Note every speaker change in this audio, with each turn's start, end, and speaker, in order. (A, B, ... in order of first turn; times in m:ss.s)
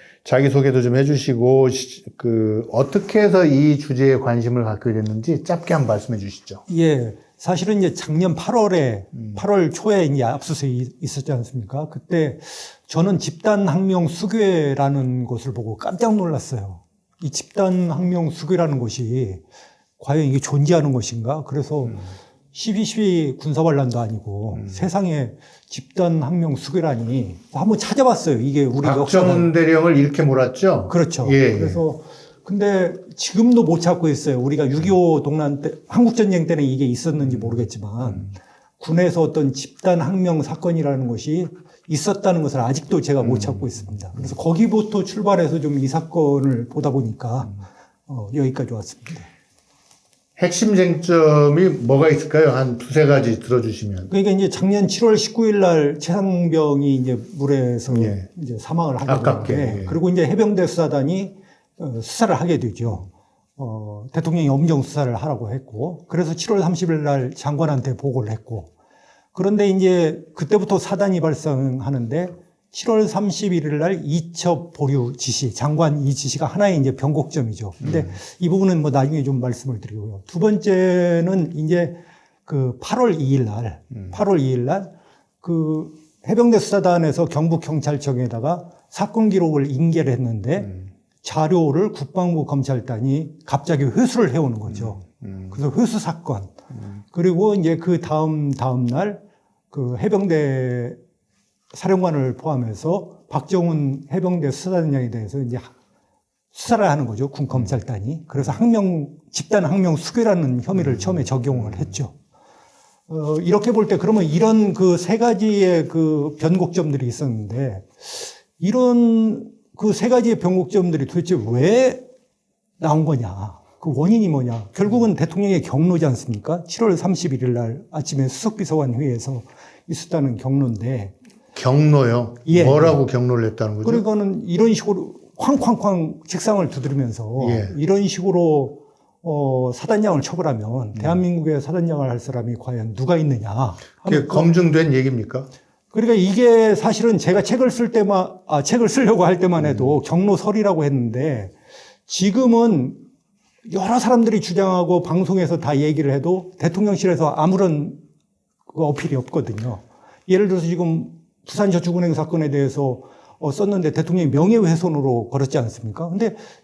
0:00.2-0:06.6 A
0:06.7-0:19.4 B
0:20.0-0:29.5 B
0:28.8-0:31.8 A
0:30.9-0:49.3 B
0:43.3-0:43.6 A
0:50.4-0:54.1 A
0:54.1-1:08.7 B
0:57.9-0:58.3 A
0:59.1-1:00.0 A
1:09.3-1:24.9 B
1:17.8-1:18.1 A
1:25.4-1:36.5 B
1:34.7-1:35.5 A
1:37.1-1:41.0 B
1:41.7-1:45.7 B
1:46.5-1:52.1 B
1:50.8-1:51.9 A
1:53.1-2:02.1 B
2:02.8-2:11.1 B
2:11.6-2:14.0 A
2:12.5-2:13.0 B
2:13.8-2:24.5 B
2:17.4-2:17.7 A
2:24.0-2:25.5 A
2:25.9-2:31.5 B
2:29.6-2:30.0 A
2:32.1-2:33.0 B
2:33.7-2:38.0 B
2:38.7-2:46.4 B